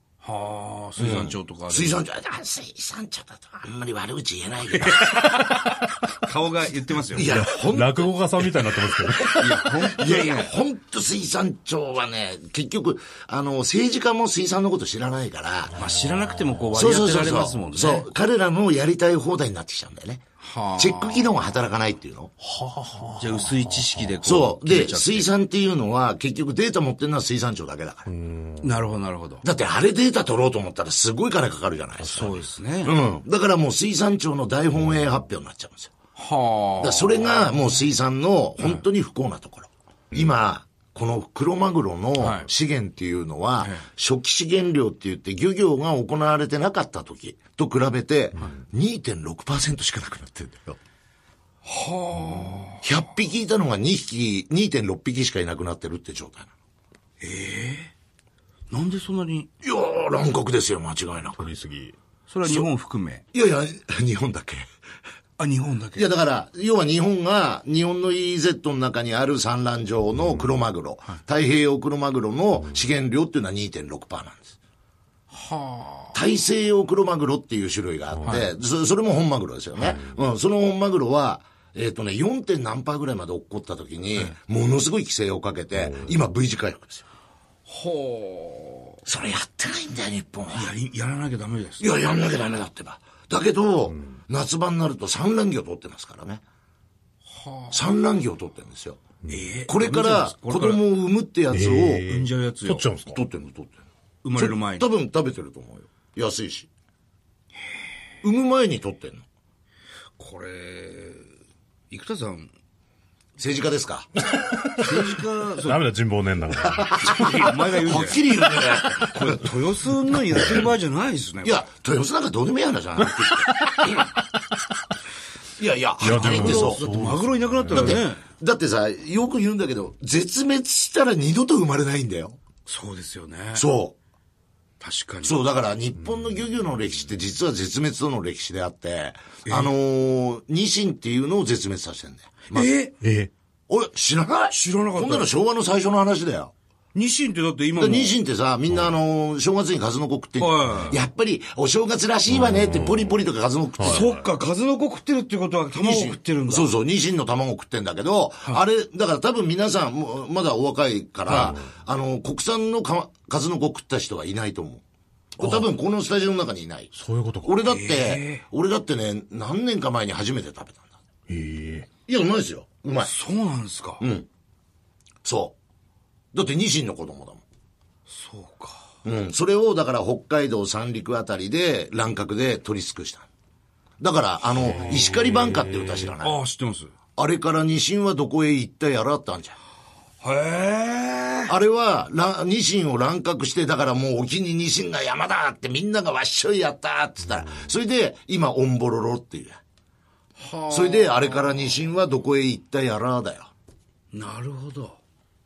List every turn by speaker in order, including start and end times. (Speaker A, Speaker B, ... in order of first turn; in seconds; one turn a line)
Speaker A: 0.2-2.0
Speaker B: 1.0-5.1
Speaker A: 4.7-7.4
Speaker B: 7.1-8.1
Speaker C: 7.2-9.8
Speaker A: 9.2-10.5
Speaker B: 9.8-15.8
Speaker C: 15.7-16.7
Speaker A: 15.8-18.1
Speaker B: 16.7-20.2
Speaker A: 20.4-21.3
Speaker B: 20.8-22.3
Speaker C: 22.4-24.1
Speaker A: 23.2-25.3
Speaker B: 24.2-28.1
Speaker C: 28.1-28.7
Speaker A: 28.6-29.4
Speaker B: 29.4-35.9
Speaker A: 32.0-32.9
Speaker A: 36.1-37.4
Speaker B: 36.8-50.8
Speaker A: 42.2-42.5
Speaker A: 51.6-52.8
Speaker B: 52.4-56.5
Speaker A: 57.2-57.9
Speaker A: 58.7-59.5
Speaker B: 59.6-61.4
Speaker C: 61.4-61.9
Speaker A: 62.3-63.2
Speaker B: 63.3-64.7
Speaker A: 65.4-66.1
Speaker B: 66.0-74.5
Speaker C: 70.2-70.5
Speaker A: 75.3-76.2
Speaker B: 76.1-87.0
Speaker C: 78.1-78.4
Speaker C: 79.8-80.1
Speaker C: 85.8-86.1
Speaker A: 87.7-89.0
Speaker B: 89.0-90.7
Speaker A: 90.5-91.9
Speaker B: 91.8-96.4
Speaker A: 97.3-97.8
Speaker B: 97.7-99.0
Speaker A: 99.2-100.8
Speaker B: 99.7-102.0
Speaker C: 101.5-103.2
Speaker A: 102.0-102.9
Speaker B: 103.1-103.8
Speaker A: 104.2-104.9
Speaker B: 104.3-106.7
Speaker B: 108.2-109.2
Speaker A: 110.2-111.3
Speaker A: 111.9-112.5
Speaker B: 113.4-114.2
Speaker C: 114.5-114.8
Speaker A: 114.8-115.8
Speaker C: 115.6-117.4
Speaker B: 116.7-119.4
Speaker A: 117.0-118.2
Speaker A: 119.0-121.6
Speaker B: 121.4-124.1
Speaker B: 125.6-126.9
Speaker C: 126.0-128.0
Speaker A: 126.1-128.2
Speaker B: 127.7-132.4
Speaker A: 132.7-133.7
Speaker B: 133.5-133.9
Speaker A: 134.8-135.3
Speaker B: 135.2-142.8
Speaker A: 139.4-139.7
Speaker A: 142.5-142.9
Speaker C: 143.0-143.3
Speaker B: 143.7-146.5
Speaker A: 144.5-145.3
Speaker A: 146.9-148.2
Speaker B: 147.8-154.1
Speaker A: 150.4-151.0
Speaker C: 152.3-153.2
Speaker C: 153.8-154.2
Speaker A: 153.8-156.7
Speaker B: 155.8-164.8
Speaker C: 161.3-161.7
Speaker B: 165.3-170.9
Speaker C: 165.4-165.7
Speaker C: 166.9-167.5
Speaker A: 167.7-168.4
Speaker C: 171.3-171.9
Speaker B: 172.0-173.1
Speaker A: 173.0-174.0
Speaker B: 174.0-174.3
Speaker B: 175.2-175.6
Speaker B: 176.3-177.4
Speaker A: 178.1-178.8
Speaker B: 179.0-183.3
Speaker B: 184.0-186.4
Speaker C: 184.8-185.6
Speaker A: 186.2-186.9
Speaker B: 187.2-189.5
Speaker A: 190.2-191.5
Speaker B: 191.5-199.6
Speaker A: 200.3-201.7
Speaker B: 200.7-203.5
Speaker A: 204.1-205.0